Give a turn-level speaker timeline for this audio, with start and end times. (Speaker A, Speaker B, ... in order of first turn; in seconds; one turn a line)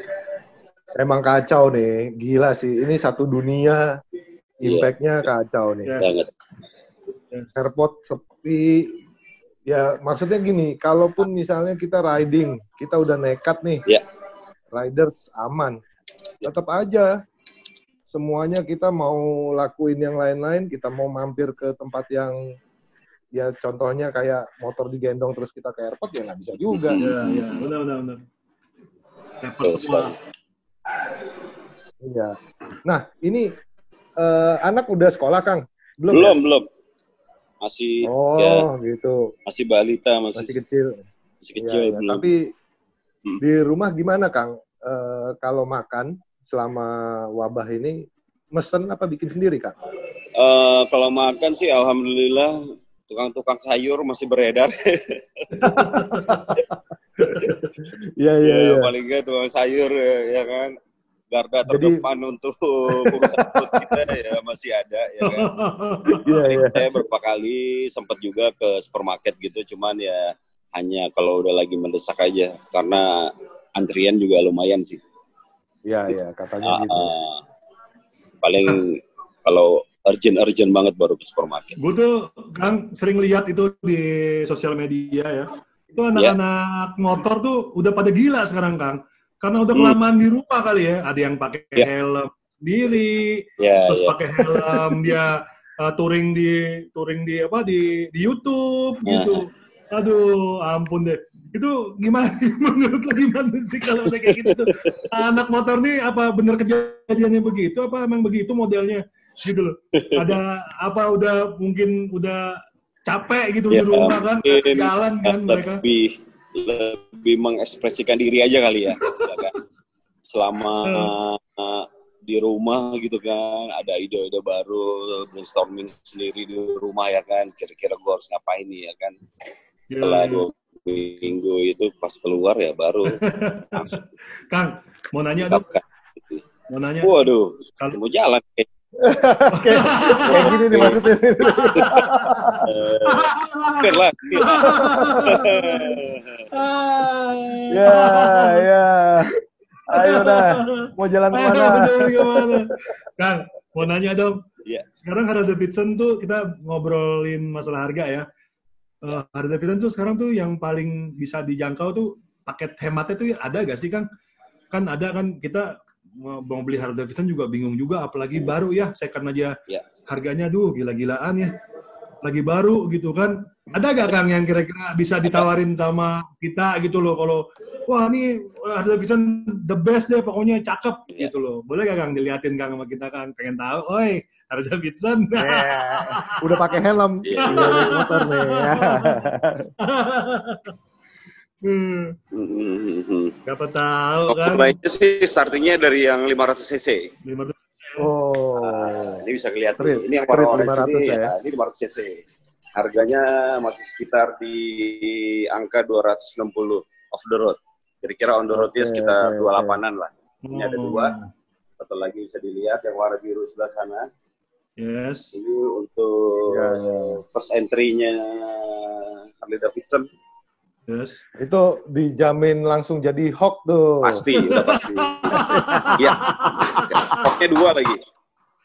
Speaker A: 1.0-3.9
Speaker A: 4.6-5.9
Speaker B: 4.6-4.9
Speaker C: 5.8-6.2
Speaker B: 6.0-6.3
Speaker A: 7.6-8.9
Speaker A: 9.7-13.8
Speaker A: 14.7-15.8
Speaker A: 16.4-17.1
Speaker A: 18.1-22.4
Speaker A: 23.4-27.0
Speaker B: 26.7-27.7
Speaker C: 27.0-28.2
Speaker C: 29.4-30.1
Speaker B: 29.6-30.1
Speaker A: 32.0-33.5
Speaker A: 34.2-36.4
Speaker B: 36.1-36.7
Speaker B: 37.6-38.7
Speaker A: 38.0-39.3
Speaker B: 39.5-40.6
Speaker A: 40.4-41.0
Speaker B: 41.4-42.3
Speaker A: 41.6-42.4
Speaker A: 43.4-48.0
Speaker A: 48.5-49.8
Speaker B: 50.4-55.8
Speaker C: 55.6-56.5
Speaker A: 55.6-58.9
Speaker B: 58.4-60.7
Speaker B: 61.3-65.5
Speaker A: 61.7-62.0
Speaker A: 63.0-63.4
Speaker C: 65.2-66.3
Speaker A: 66.2-66.8
Speaker B: 66.3-75.0
Speaker A: 75.9-77.1
Speaker B: 76.6-77.4
Speaker B: 78.4-81.8
Speaker C: 81.8-115.8
Speaker B: 93.6-95.2
Speaker B: 99.1-99.4
Speaker B: 104.2-105.0
Speaker B: 109.9-110.4
Speaker B: 113.7-119.5
Speaker C: 119.0-119.5
Speaker B: 120.3-129.2
Speaker C: 120.8-121.1
Speaker C: 129.9-130.4
Speaker B: 129.9-133.2
Speaker C: 133.1-135.7
Speaker B: 133.7-134.0
Speaker B: 135.4-136.4
Speaker C: 136.7-137.3
Speaker B: 137.0-138.7
Speaker A: 139.0-142.7
Speaker C: 139.5-140.6
Speaker B: 140.2-141.0
Speaker C: 141.4-146.0
Speaker B: 142.7-146.5
Speaker A: 144.8-145.4
Speaker C: 146.5-148.7
Speaker A: 147.7-149.3
Speaker A: 149.9-152.7
Speaker C: 149.9-154.4
Speaker C: 155.0-158.3
Speaker C: 159.0-164.1
Speaker C: 164.7-171.5
Speaker C: 172.2-186.8
Speaker A: 185.4-189.7
Speaker B: 187.2-188.0
Speaker C: 187.4-189.2
Speaker C: 189.8-190.7
Speaker C: 191.6-192.1
Speaker B: 192.3-193.4
Speaker C: 193.5-194.8
Speaker B: 194.3-197.1
Speaker C: 197.2-198.1
Speaker A: 198.0-199.2
Speaker B: 198.6-202.2
Speaker A: 199.8-201.3
Speaker B: 202.8-211.1
Speaker A: 208.5-209.8
Speaker C: 210.5-211.3
Speaker B: 211.8-214.1
Speaker C: 214.8-215.3
Speaker B: 215.3-220.1
Speaker A: 216.5-217.2
Speaker C: 220.9-221.2
Speaker A: 221.4-224.3
Speaker B: 224.0-225.4
Speaker C: 224.4-227.3
Speaker A: 225.5-226.0
Speaker B: 226.0-228.0